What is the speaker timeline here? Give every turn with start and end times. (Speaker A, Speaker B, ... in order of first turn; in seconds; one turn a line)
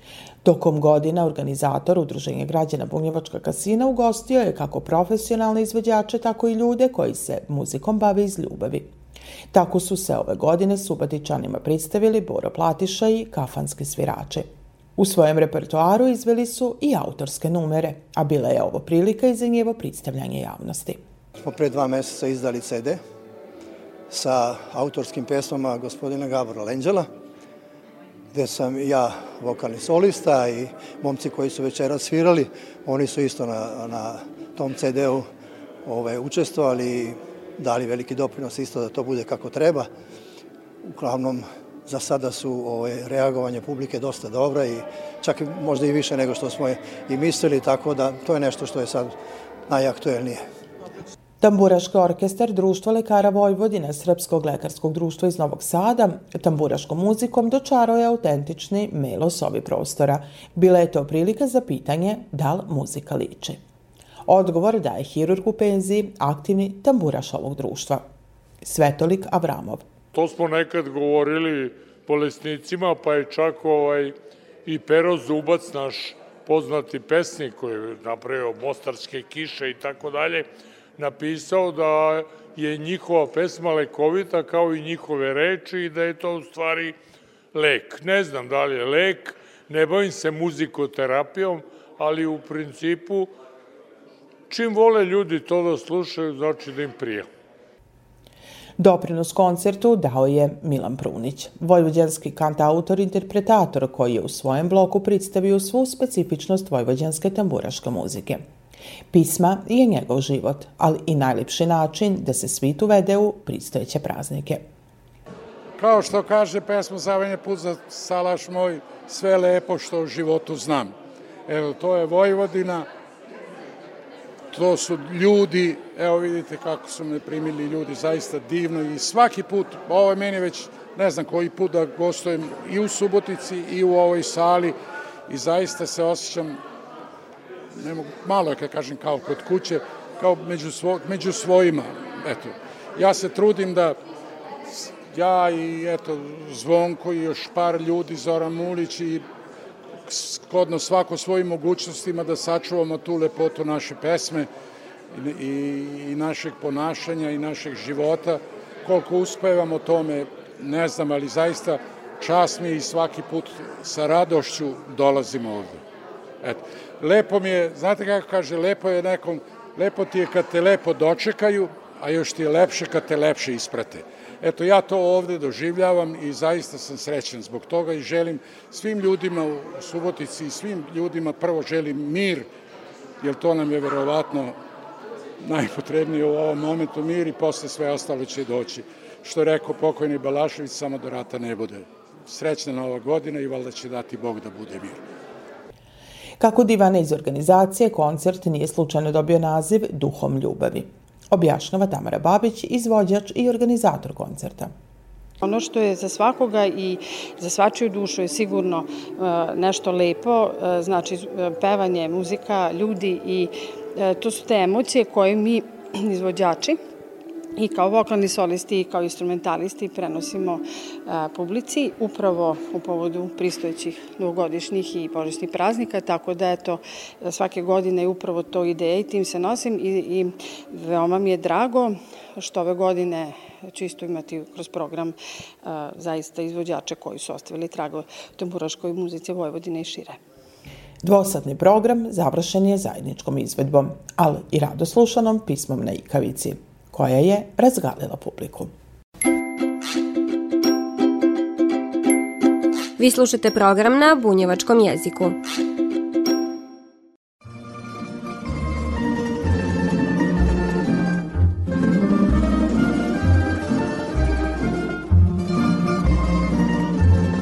Speaker A: 0.4-8.9
Speaker A: 9.5-21.0
Speaker B: 21.4-23.0
Speaker B: 24.1-27.1
Speaker B: 28.3-35.3
Speaker B: 35.8-39.9
Speaker B: 40.9-49.1
Speaker B: 49.7-50.4
Speaker A: 51.4-63.6
Speaker A: 64.3-68.0
Speaker A: 68.6-69.8
Speaker C: 70.1-74.1
Speaker C: 74.7-80.5
Speaker C: 81.0-87.0
Speaker C: 87.5-93.3
Speaker C: 94.5-97.3
Speaker A: 98.8-108.4
Speaker A: 109.1-114.6
Speaker D: 115.8-120.9
Speaker D: 121.5-122.9
Speaker D: 124.5-134.8
Speaker D: 135.3-136.6
Speaker D: 137.8-144.0
Speaker D: 144.7-149.2
Speaker D: 150.1-154.5
Speaker D: 155.1-165.8
Speaker D: 166.4-182.5
Speaker D: 183.2-184.6
Speaker D: 185.4-195.0
Speaker A: 196.4-204.7
Speaker E: 205.4-216.8
Speaker E: 217.6-240.2
Speaker A: 241.0-248.7
Speaker F: 253.0-255.3